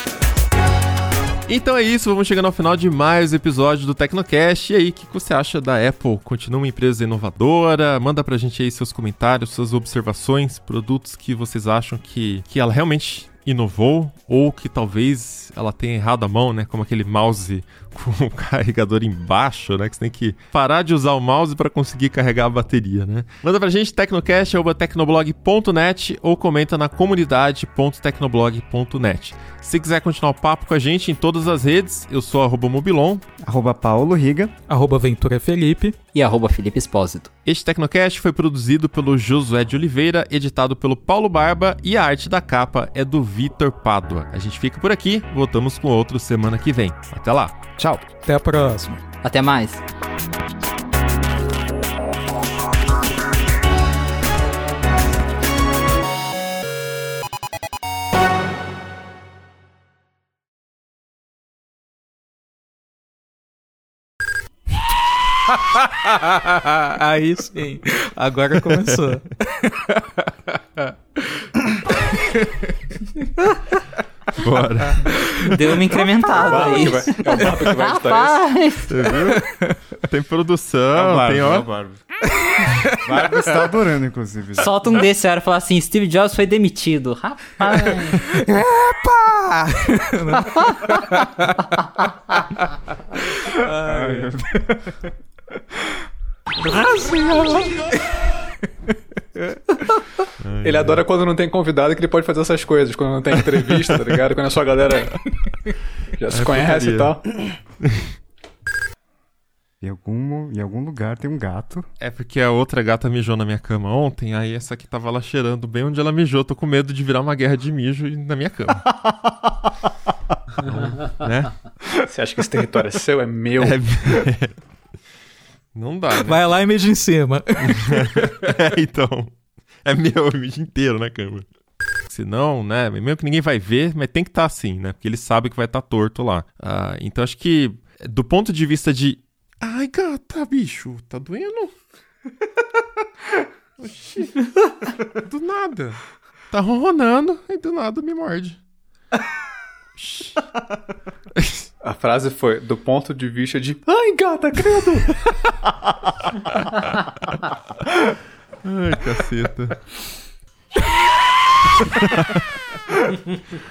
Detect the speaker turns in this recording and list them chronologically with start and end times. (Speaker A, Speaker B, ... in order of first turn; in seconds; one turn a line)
Speaker A: 1.5-33.2
Speaker B: 33.4-34.5
Speaker C: 34.7-36.0
Speaker D: 36.1-37.3
Speaker A: 37.5-47.6
Speaker B: 47.8-48.0
Speaker C: 48.2-49.0
Speaker D: 49.2-49.8
Speaker C: 65.5-73.8
Speaker A: 74.3-75.3
Speaker C: 75.0-75.6
Speaker D: 75.4-79.0
Speaker E: 76.3-78.4
Speaker A: 78.9-79.4
Speaker C: 79.2-79.8
Speaker A: 80.0-81.7
Speaker B: 80.9-82.0
Speaker C: 82.4-83.5
Speaker B: 83.0-84.7
Speaker D: 84.5-88.2
Speaker C: 88.3-91.8
Speaker D: 90.4-91.0
Speaker C: 92.6-94.7
Speaker B: 93.8-94.7
Speaker C: 96.6-98.3
Speaker C: 99.4-99.8
Speaker A: 100.4-101.0
Speaker E: 100.6-105.2
Speaker E: 106.2-107.4
Speaker A: 106.3-108.1
Speaker B: 109.8-111.9
Speaker A: 112.0-119.0
Speaker B: 119.1-119.5
Speaker A: 120.6-121.6
Speaker E: 122.0-124.3
Speaker A: 123.6-124.5
Speaker A: 125.7-126.4
Speaker C: 126.1-128.4
Speaker A: 127.7-129.3
Speaker A: 129.8-131.4
Speaker A: 132.1-141.7
Speaker A: 143.8-144.5
Speaker A: 145.1-148.6
Speaker A: 150.0-150.4
Speaker A: 151.3-151.7
Speaker E: 151.8-155.3
Speaker A: 158.6-159.9
Speaker A: 161.7-163.1